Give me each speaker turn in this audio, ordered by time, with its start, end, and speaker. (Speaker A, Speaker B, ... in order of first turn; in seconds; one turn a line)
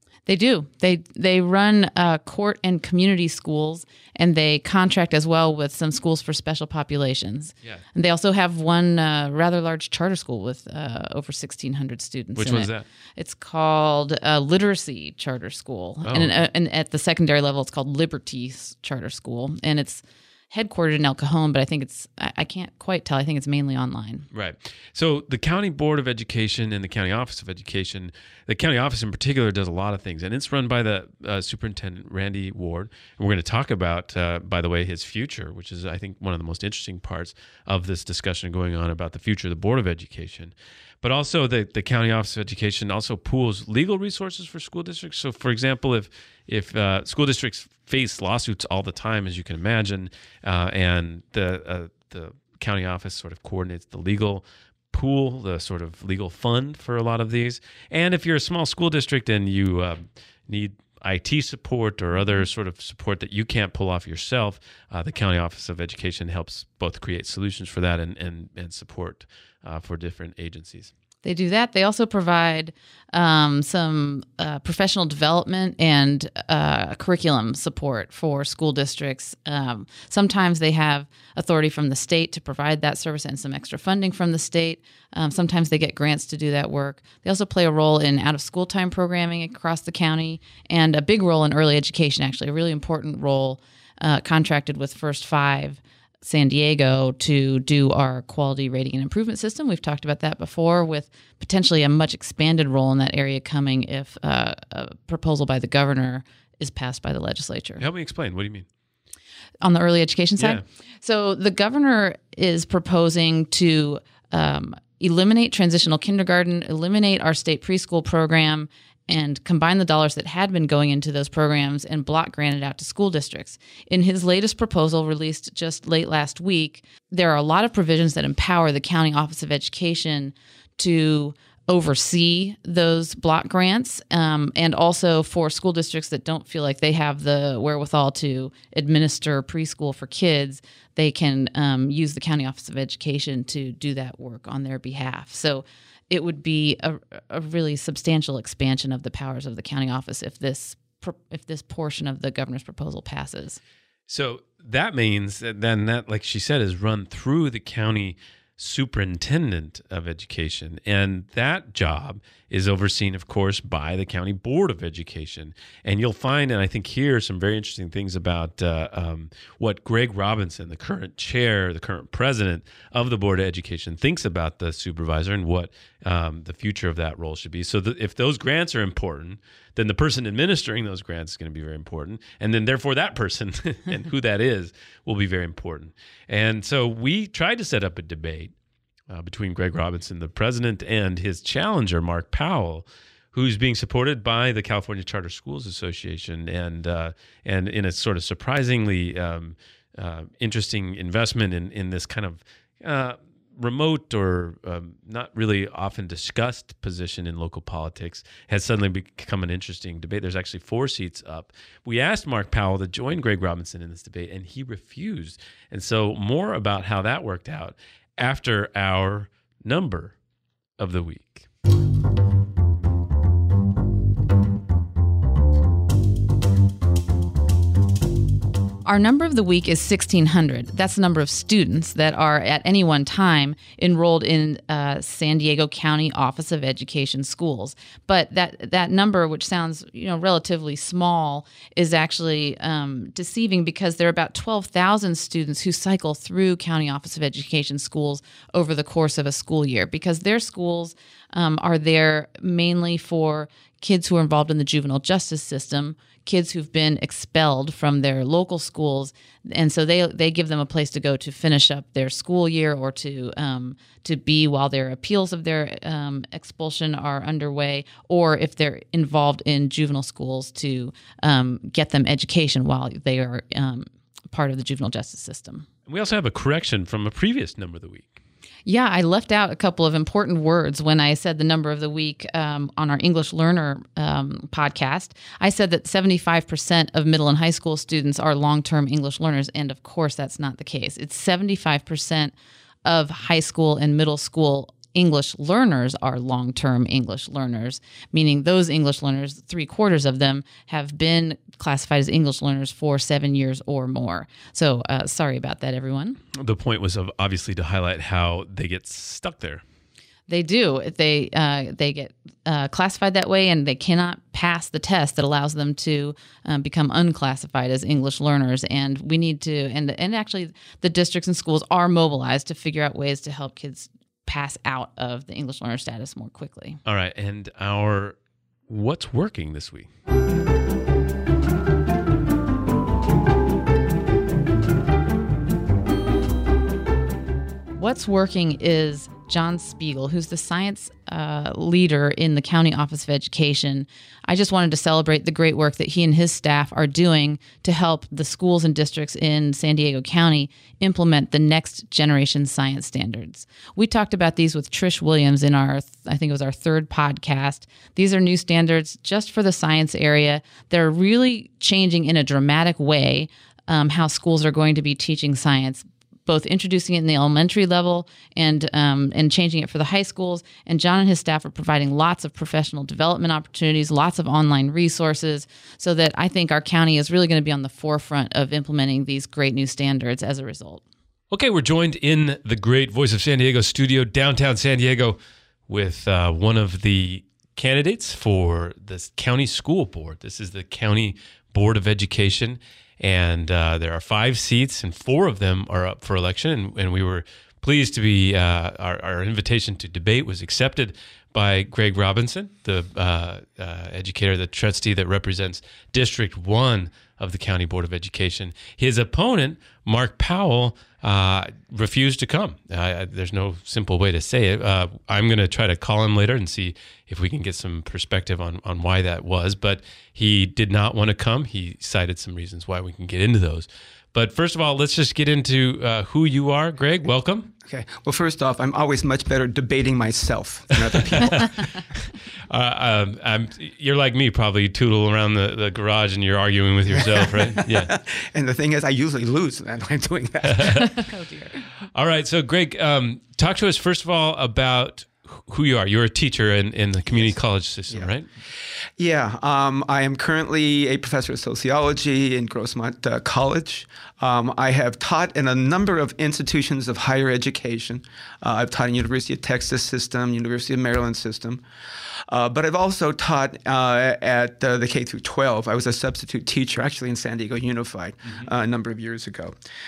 Speaker A: 0.3-24.2
Speaker B: 12.3-12.8
Speaker B: 16.0-16.3
Speaker B: 24.3-70.9
Speaker A: 71.2-107.8
Speaker B: 107.8-108.7
Speaker A: 109.6-153.6
Speaker B: 154.1-188.5
Speaker B: 189.1-220.1
Speaker B: 220.8-221.5
Speaker A: 228.8-275.6
Speaker B: 275.9-278.1
Speaker A: 278.6-292.3
Speaker A: 292.8-306.2
Speaker B: 306.3-309.6
Speaker A: 310.3-326.8
Speaker B: 326.9-328.1
Speaker B: 328.7-329.9
Speaker A: 337.8-380.8
Speaker B: 381.3-427.5
Speaker C: 427.6-431.5
Speaker B: 430.9-437.9
Speaker C: 436.9-440.9
Speaker B: 440.4-441.0
Speaker A: 441.1-441.5
Speaker B: 441.9-448.3
Speaker C: 447.1-447.4
Speaker C: 449.0-461.6
Speaker C: 462.3-469.6